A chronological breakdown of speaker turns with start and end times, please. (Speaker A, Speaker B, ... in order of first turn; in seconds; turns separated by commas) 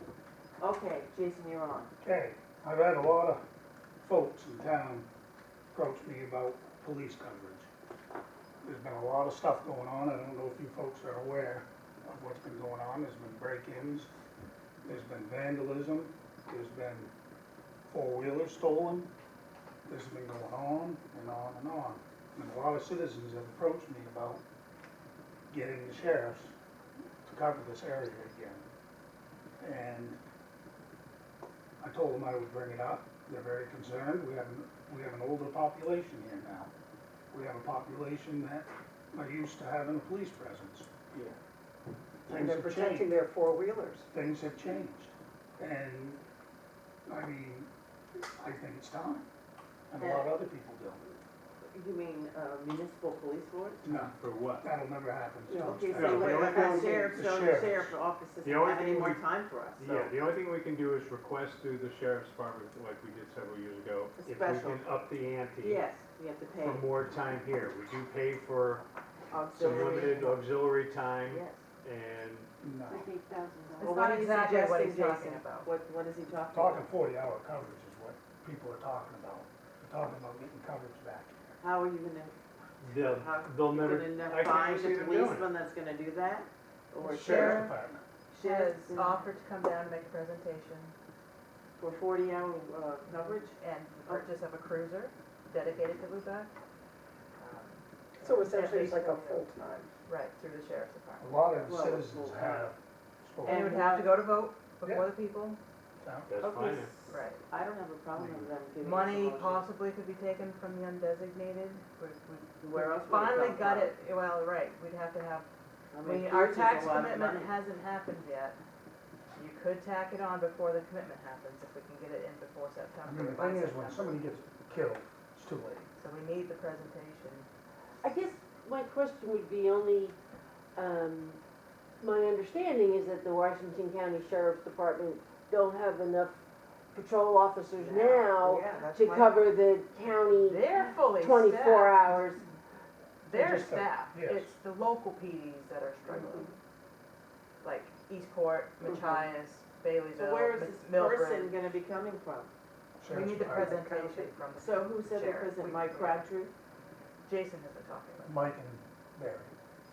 Speaker A: 0.6-1.9, Speaker B: 2.0-3.4, Speaker B: 4.0-5.1, Speaker B: 5.7-7.7, Speaker B: 8.6-14.1, Speaker B: 14.8-17.1, Speaker B: 17.9-19.1, Speaker B: 19.9-24.4, Speaker B: 25.5-26.5, Speaker B: 27.2-28.6, Speaker B: 29.6-30.2, Speaker B: 31.8-36.7, Speaker B: 37.3-41.4, Speaker B: 42.2-43.1, Speaker C: 42.3-44.1, Speaker B: 44.1-46.2, Speaker B: 47.1-47.7, Speaker B: 48.4-49.2, Speaker B: 49.9-51.0, Speaker A: 50.0-50.3, Speaker A: 51.6-53.9, Speaker B: 53.9-56.3, Speaker D: 54.0-54.7, Speaker C: 55.5-57.0, Speaker A: 55.6-60.1, Speaker D: 55.9-56.8, Speaker B: 57.1-57.9, Speaker D: 58.4-59.2, Speaker D: 59.8-65.8, Speaker A: 64.2-64.8, Speaker A: 65.6-66.9, Speaker D: 66.6-68.8, Speaker A: 69.3-70.5, Speaker D: 69.5-72.5, Speaker A: 71.2-71.6, Speaker B: 72.6-73.0, Speaker C: 72.9-73.4, Speaker E: 73.0-73.8, Speaker F: 73.8-75.7, Speaker A: 73.8-76.9, Speaker B: 76.5-81.6, Speaker A: 81.6-87.7, Speaker D: 82.8-85.5, Speaker F: 87.0-87.8, Speaker B: 87.0-88.0, Speaker A: 88.3-89.3, Speaker F: 88.4-90.9, Speaker A: 91.8-93.5, Speaker F: 93.1-96.5, Speaker F: 97.4-99.4, Speaker C: 98.2-99.9, Speaker F: 100.0-101.7, Speaker B: 101.2-104.0, Speaker A: 101.6-102.7, Speaker F: 103.4-105.6, Speaker A: 103.5-104.0, Speaker B: 104.8-105.1, Speaker B: 106.0-106.3, Speaker D: 106.3-106.9, Speaker A: 106.4-109.6, Speaker F: 107.1-107.4, Speaker B: 108.2-108.5, Speaker F: 108.8-115.5, Speaker A: 112.6-113.9, Speaker A: 115.9-117.6, Speaker F: 116.0-118.6, Speaker F: 119.3-124.3, Speaker B: 123.0-125.9, Speaker F: 126.0-127.5, Speaker E: 128.0-130.1, Speaker E: 130.7-131.4, Speaker E: 132.0-136.4, Speaker E: 136.9-140.6, Speaker A: 137.8-139.5, Speaker F: 140.3-142.2, Speaker E: 141.2-142.4, Speaker F: 143.2-146.5, Speaker B: 143.3-144.5, Speaker F: 147.6-151.7, Speaker A: 150.1-152.5, Speaker B: 153.0-153.8, Speaker F: 153.1-156.2, Speaker C: 153.5-154.3, Speaker A: 154.6-156.5, Speaker F: 157.2-158.4, Speaker B: 158.2-159.5